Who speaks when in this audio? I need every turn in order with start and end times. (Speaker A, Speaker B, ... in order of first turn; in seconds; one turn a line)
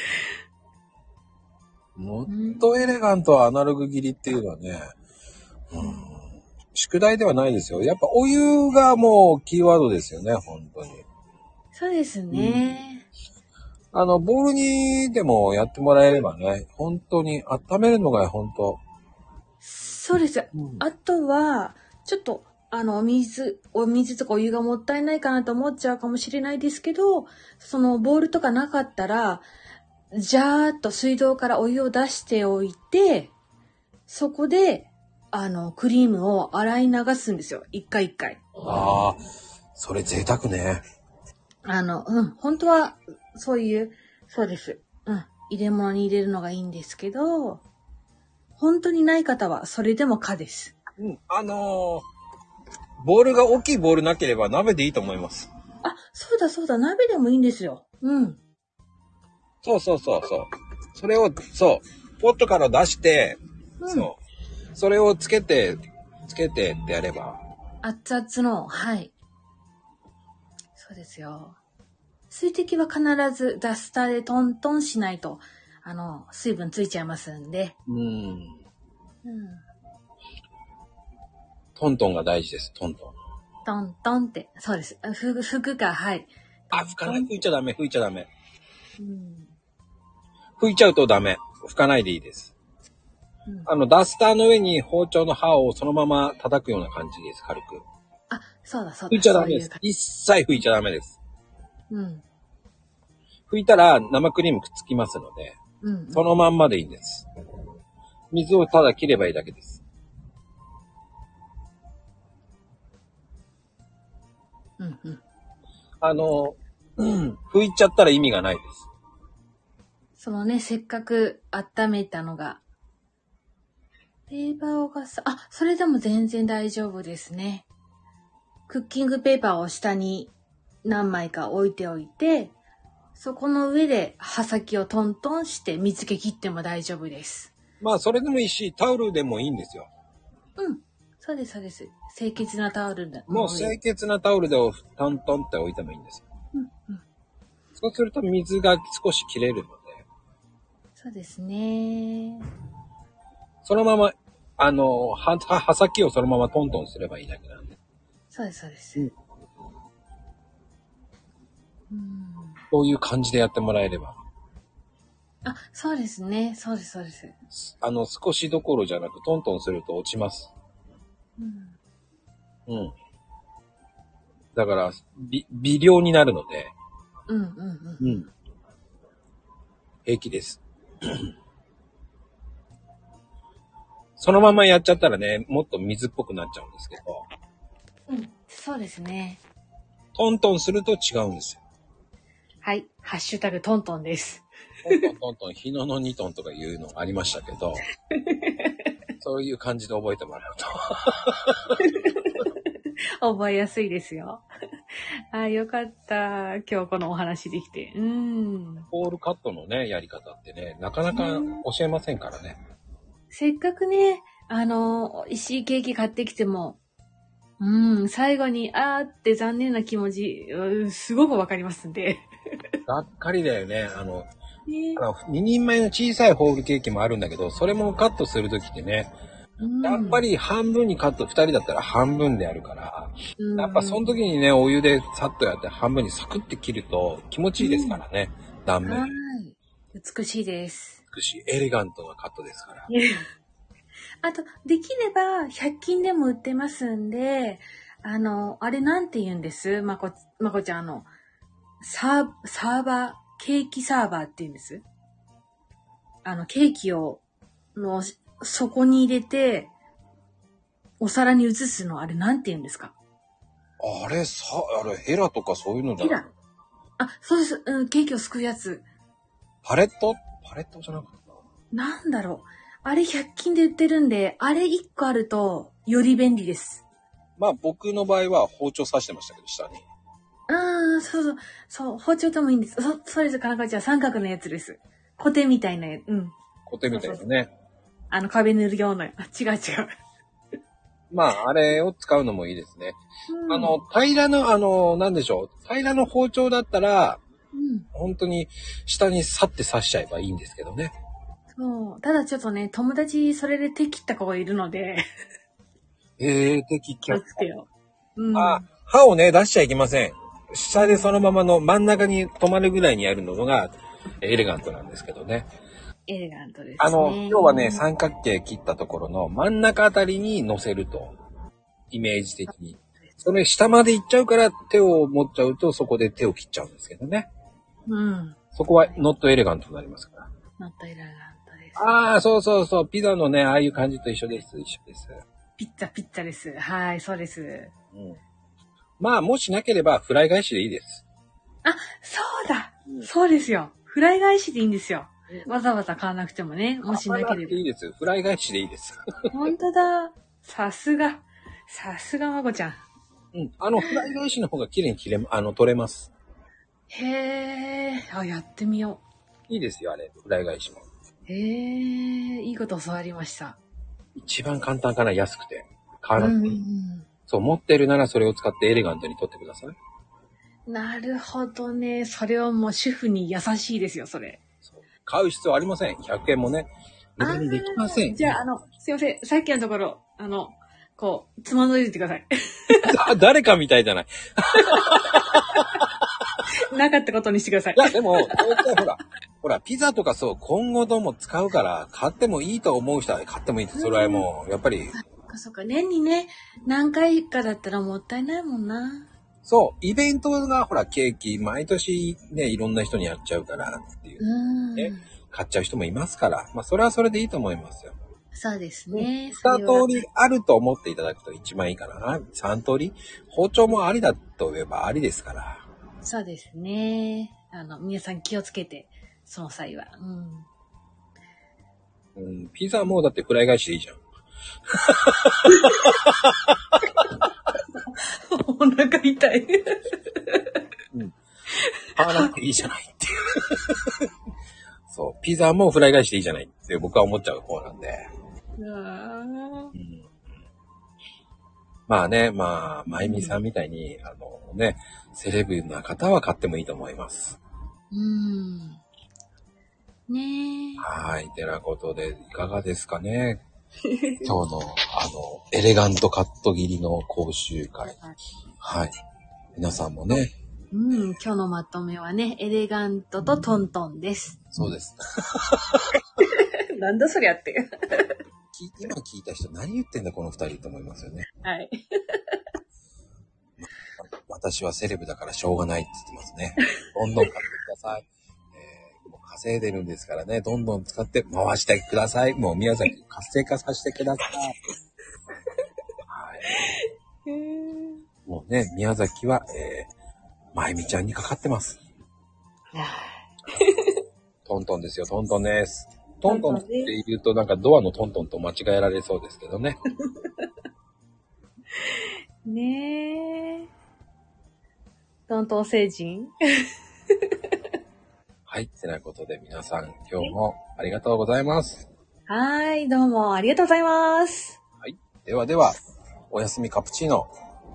Speaker A: 2.0-4.9
Speaker B: 2.3-2.7
Speaker A: 5.7-11.0
Speaker B: 5.8-6.1
Speaker B: 11.7-13.1
Speaker A: 12.3-12.7
Speaker A: 13.9-18.8
Speaker B: 19.6-29.5
Speaker A: 20.5-20.8
Speaker B: 30.1-33.3
Speaker B: 34.1-38.4
Speaker A: 38.6-39.2
Speaker A: 39.8-40.8
Speaker B: 41.6-47.6
Speaker B: 48.6-50.8
Speaker A: 51.0-52.0
Speaker A: 53.0-55.5
Speaker B: 55.8-58.4
Speaker A: 59.6-64.2
Speaker B: 63.8-64.1
Speaker A: 64.8-67.4
Speaker B: 67.8-69.1
Speaker B: 70.8-71.6
Speaker B: 72.3-77.8
Speaker A: 77.9-78.6
Speaker B: 79.2-79.6
Speaker A: 81.8-83.2
Speaker B: 83.7-87.3
Speaker A: 86.7-88.3
Speaker B: 89.0-89.5
Speaker A: 90.6-92.5
Speaker A: 93.7-97.8
Speaker B: 98.3-99.8
Speaker A: 99.1-101.2
Speaker B: 101.9-102.2
Speaker A: 103.5-105.6
Speaker B: 105.8-106.3
Speaker A: 106.1-107.3
Speaker A: 108.3-109.8
Speaker B: 114.8-115.2
Speaker A: 116.0-118.9
Speaker B: 120.2-122.6
Speaker B: 124.3-127.7
Speaker B: 128.7-130.3
Speaker B: 130.8-132.6
Speaker B: 133.2-137.5
Speaker A: 137.8-139.9
Speaker B: 140.6-143.8
Speaker A: 143.3-146.2
Speaker B: 146.5-147.0
Speaker A: 147.8-150.0
Speaker B: 151.0-152.5
Speaker A: 153.6-157.7
Speaker B: 158.3-159.1
Speaker B: 161.9-162.6
Speaker A: 162.7-164.2
Speaker B: 165.4-167.3
Speaker A: 167.5-170.5
Speaker B: 171.4-171.8
Speaker A: 172.7-172.9
Speaker A: 174.5-176.7
Speaker B: 177.3-178.2
Speaker A: 178.0-178.3
Speaker A: 180.1-181.3
Speaker A: 184.2-187.2
Speaker B: 188.1-189.4
Speaker A: 190.2-191.6
Speaker B: 192.6-194.5
Speaker A: 194.8-197.8
Speaker B: 198.2-198.9
Speaker A: 199.2-201.8
Speaker B: 201.8-202.5
Speaker B: 203.2-204.4
Speaker B: 205.3-208.9
Speaker A: 208.9-212.6
Speaker B: 211.1-211.6
Speaker B: 213.3-216.8
Speaker B: 217.6-222.3
Speaker A: 222.9-224.3
Speaker B: 224.7-225.0
Speaker A: 225.0-229.1
Speaker B: 229.6-230.2
Speaker A: 229.8-239.2
Speaker B: 233.4-234.2
Speaker B: 237.6-238.0
Speaker B: 238.8-241.0
Speaker A: 241.1-242.9
Speaker B: 242.9-243.3
Speaker B: 244.2-251.1
Speaker B: 251.8-254.8
Speaker B: 256.2-257.2
Speaker B: 257.8-259.7
Speaker B: 261.0-262.9
Speaker A: 263.8-266.2
Speaker B: 266.0-266.3
Speaker B: 267.0-268.8
Speaker A: 269.6-271.4
Speaker B: 271.7-276.8
Speaker A: 277.4-279.8
Speaker B: 280.5-286.3
Speaker A: 286.7-287.5
Speaker B: 286.9-287.2
Speaker B: 288.1-289.9
Speaker A: 291.1-293.0
Speaker B: 293.3-293.8
Speaker A: 293.5-297.2
Speaker B: 297.5-297.9
Speaker A: 297.9-300.9
Speaker B: 301.5-305.1
Speaker A: 306.2-307.4
Speaker B: 307.1-308.6
Speaker A: 308.3-315.5
Speaker B: 310.8-311.2
Speaker B: 316.1-317.8
Speaker A: 316.8-321.1
Speaker A: 321.9-327.3
Speaker B: 327.9-329.0
Speaker A: 328.6-330.3
Speaker B: 330.6-331.9
Speaker A: 331.8-335.2
Speaker B: 335.6-337.7
Speaker A: 337.9-338.2
Speaker A: 339.0-341.0
Speaker B: 341.6-347.6
Speaker A: 346.9-349.0
Speaker B: 349.3-352.8
Speaker A: 353.3-356.1
Speaker B: 353.8-354.1
Speaker B: 356.9-359.0
Speaker A: 359.5-360.8
Speaker B: 361.3-363.6
Speaker A: 364.1-366.6
Speaker B: 366.2-367.1
Speaker A: 367.3-369.8
Speaker B: 370.7-374.4
Speaker A: 374.6-378.4
Speaker B: 377.2-382.9
Speaker A: 382.9-386.0
Speaker B: 384.5-385.6
Speaker B: 386.6-388.7
Speaker A: 387.8-394.9
Speaker B: 393.7-394.3
Speaker B: 394.9-399.1
Speaker A: 399.4-404.2
Speaker B: 404.2-405.1
Speaker A: 404.8-408.0
Speaker B: 408.3-409.9
Speaker A: 408.9-415.6
Speaker B: 416.0-420.5
Speaker A: 422.2-424.0
Speaker A: 424.7-426.6
Speaker B: 427.9-430.6
Speaker A: 430.9-431.2
Speaker B: 431.6-432.3
Speaker A: 432.0-434.0
Speaker A: 434.9-438.1
Speaker B: 438.6-439.7
Speaker A: 439.8-440.1
Speaker A: 441.9-447.4
Speaker B: 442.9-443.4
Speaker B: 447.9-448.8
Speaker B: 450.1-450.9
Speaker A: 450.8-453.4
Speaker B: 453.9-454.3
Speaker A: 454.2-458.0
Speaker A: 458.6-458.9
Speaker A: 459.6-460.3
Speaker B: 460.7-464.4
Speaker A: 464.5-466.0
Speaker B: 466.2-468.1
Speaker A: 468.5-471.3
Speaker B: 471.4-472.3
Speaker A: 473.6-484.6
Speaker A: 486.1-486.6
Speaker B: 486.5-488.0
Speaker A: 488.2-489.9
Speaker A: 490.5-491.8
Speaker B: 492.7-494.0
Speaker A: 494.5-499.8
Speaker B: 496.3-496.9
Speaker B: 501.8-503.7
Speaker B: 505.3-506.7
Speaker A: 508.5-511.9
Speaker B: 512.3-514.6
Speaker A: 514.8-515.8
Speaker A: 516.3-517.3